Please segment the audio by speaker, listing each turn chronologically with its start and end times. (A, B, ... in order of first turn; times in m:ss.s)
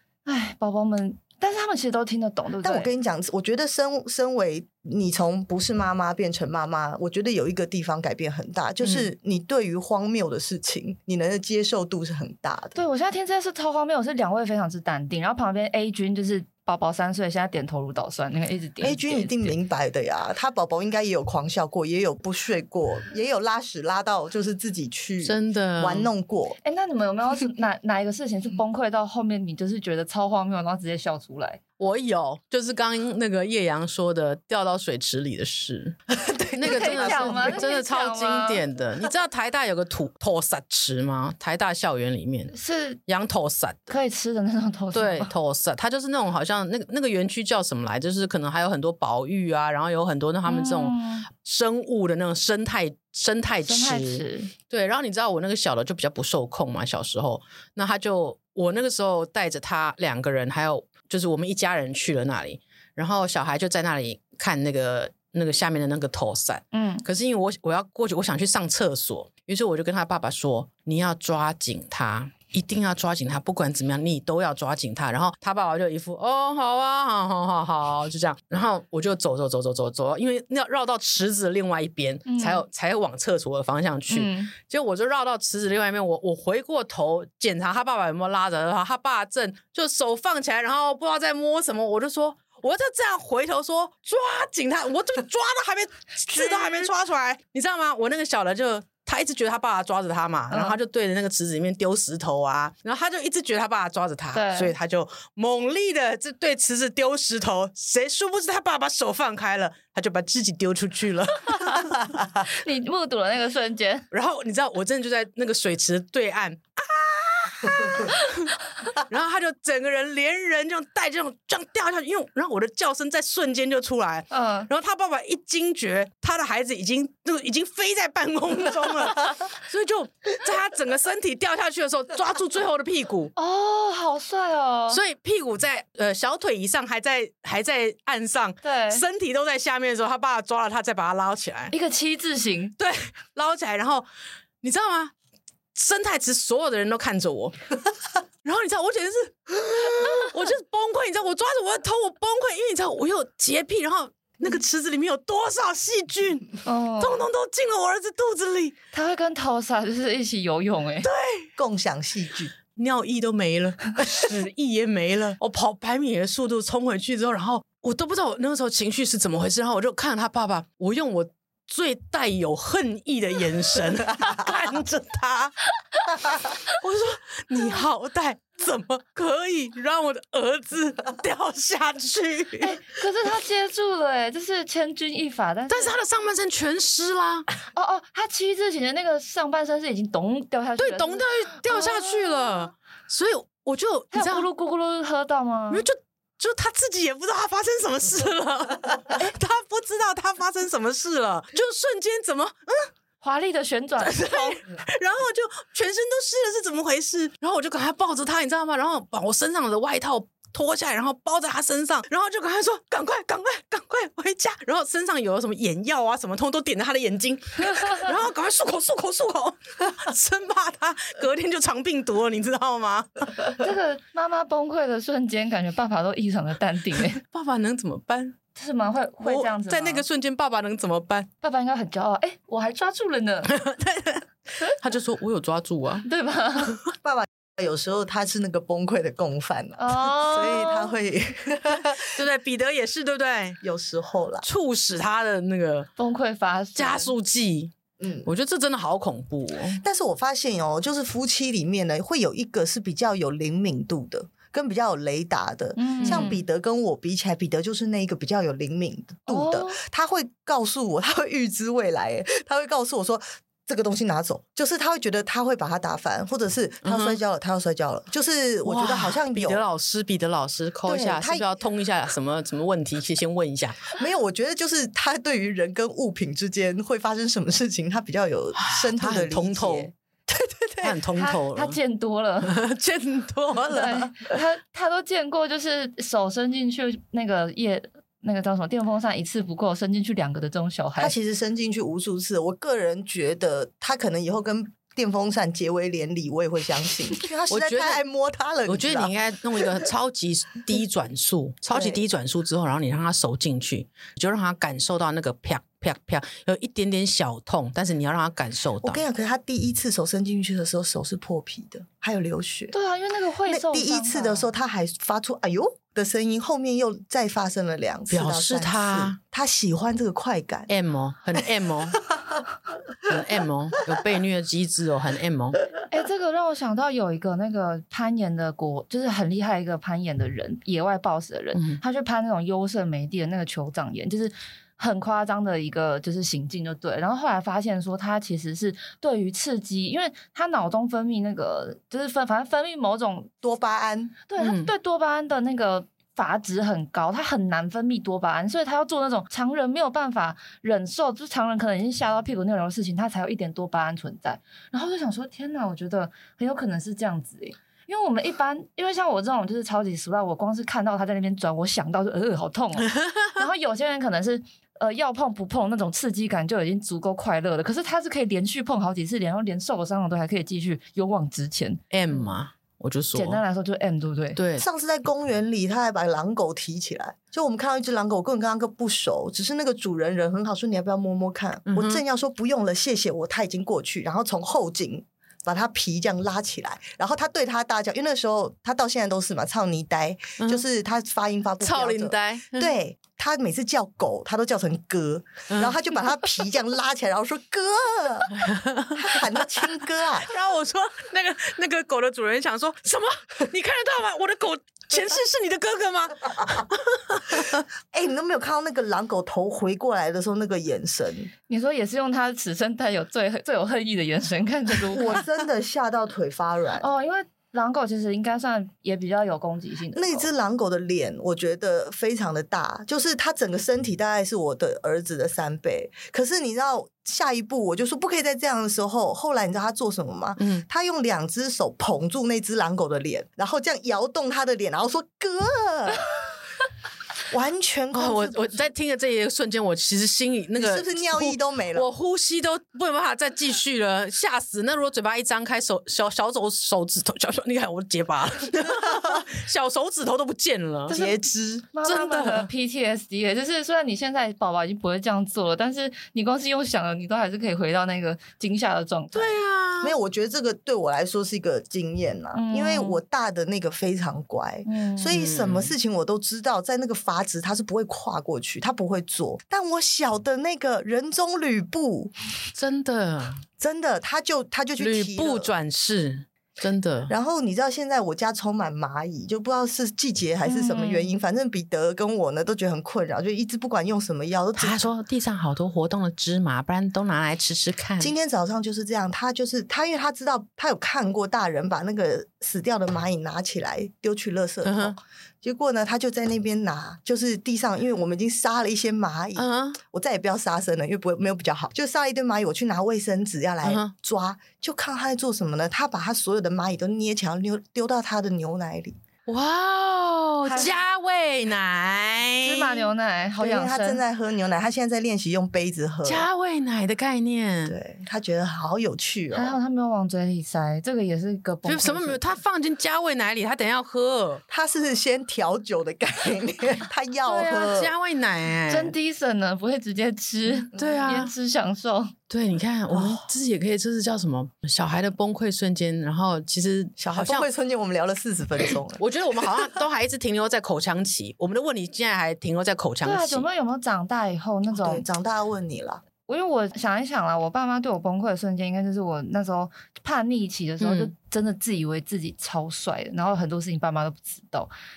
0:00.3-0:02.9 A
0:02.6-0:12.8 B
0:08.8-0:09.1 C
0:12.8-0:19.5 A
0:18.8-0:26.6 B
0:25.2-0:26.1 C
0:26.6-0:31.6 A
0:31.8-0:42.5 C
0:36.2-0:37.7 B
0:36.6-0:38.6 A
0:42.5-0:43.0 A
0:43.1-0:43.9 C
0:43.9-0:45.3 A
0:44.9-1:52.2 C
0:50.5-0:51.3 A
0:53.6-0:54.5 A
1:06.7-1:07.0 A
1:22.3-1:22.6 A
1:24.1-1:24.5 A
1:40.5-1:40.8 A
1:44.3-1:44.7 A
1:52.4-1:54.1 A
1:54.1-2:13.3 C
2:04.3-2:04.7 A
2:13.4-2:15.0 A
2:14.9-2:21.7 C
2:18.6-2:19.0 A
2:21.7-2:22.8 A
2:22.8-2:24.1 C
2:24.6-2:25.1 C
2:25.8-2:27.6 C
2:28.4-2:38.8 C
2:36.6-2:37.2 A
2:38.9-2:41.1 A
2:41.0-2:41.5 C
2:41.6-2:42.5 B
2:42.8-2:55.6 C
2:56.4-3:02.8 C
3:02.6-3:06.0 A
3:05.7-3:07.5 C
3:07.8-3:12.7 A
3:10.8-3:14.5 C
3:14.1-3:15.9 A
3:15.7-3:22.9 C
3:23.2-3:24.6 A
3:24.0-3:43.2 C
3:43.6-3:47.2 A
3:47.2-3:48.4 C
3:48.6-3:50.0 A
3:49.2-3:51.3 C
3:51.4-3:53.6 A
3:53.5-3:56.1 C
3:56.0-3:56.8 A
3:57.0-4:02.1 B
3:59.8-4:00.9 A
4:02.0-4:03.6 C
4:03.6-4:04.5 B
4:04.4-4:05.9 C
4:06.0-4:07.1 A
4:06.8-4:07.7 C
4:08.0-4:08.3 B
4:08.3-4:09.8 C
4:09.8-4:29.6 B
4:15.8-4:16.4 A
4:16.0-4:16.3 C
4:19.3-4:19.8 A
4:26.8-4:27.2 C
4:28.6-4:33.9 C
4:30.9-4:31.5 B
4:34.0-4:41.0 B
4:38.6-4:39.9 C
4:40.8-4:41.8 C
4:41.2-4:42.6 A
4:42.4-4:44.1 C
4:43.7-4:51.2 A
4:51.0-4:59.1 B
4:57.5-4:58.0 C
4:58.7-5:09.0 C
5:01.7-5:02.0 B
5:08.8-5:12.7 B
5:12.7-5:14.5 A
5:13.5-5:20.7 B
5:18.1-5:19.2 C
5:20.7-5:22.0 C
5:23.0-5:25.6 C
5:25.9-5:43.3 A
5:31.5-5:31.8 C
5:43.4-5:44.2 B
5:44.3-6:12.3 A
5:44.4-5:44.7 C
6:11.9-6:13.4 C
6:13.1-6:14.4 A
6:14.4-6:14.7 C
6:14.6-6:38.4 B
6:21.7-6:22.0 C
6:31.6-6:32.7 C
6:35.5-6:35.8 C
6:38.4-6:39.2 C
6:39.0-6:40.3 B
6:40.3-6:47.6 C
6:47.9-6:51.3 B
6:51.5-6:55.2 A
6:54.9-6:56.8 B
6:56.8-7:00.3 A
6:59.9-7:16.1 B
7:10.4-7:10.6 C
7:17.3-7:18.5 B
7:17.9-7:31.0 C
7:20.6-7:21.9 B
7:30.9-7:31.2 A
7:30.9-7:31.7 B
7:31.7-7:39.4 A
7:31.8-7:32.5 C
7:39.1-7:40.0 C
7:39.8-7:52.1 B
7:42.3-7:43.0 A
7:44.7-7:45.2 A
7:45.1-7:45.8 C
7:52.5-7:53.4 C
7:53.6-7:55.5 B
7:54.8-7:57.1 C
7:57.1-8:04.9 B
8:00.4-8:01.1 A
8:04.6-8:08.1 C
8:08.0-8:29.0 B
8:14.6-8:15.0 C
8:19.4-8:19.8 C
8:23.6-8:23.9 C
8:29.3-8:32.8 C
8:32.4-8:34.0 A
8:33.4-8:36.3 B
8:36.0-8:37.8 C
8:37.7-8:39.6 B
8:39.3-8:42.2 A
8:41.7-8:44.4 C
8:44.5-8:47.9 B
8:47.2-8:49.0 C
8:48.7-8:52.1 A
8:50.7-8:51.3 C
8:52.3-8:57.5 C
8:52.9-8:53.2 B
8:57.0-8:59.0 B
8:59.0-9:03.5 C
9:03.0-9:05.1 A
9:04.7-9:06.0 B
9:06.3-9:14.7 A
9:10.8-9:11.1 C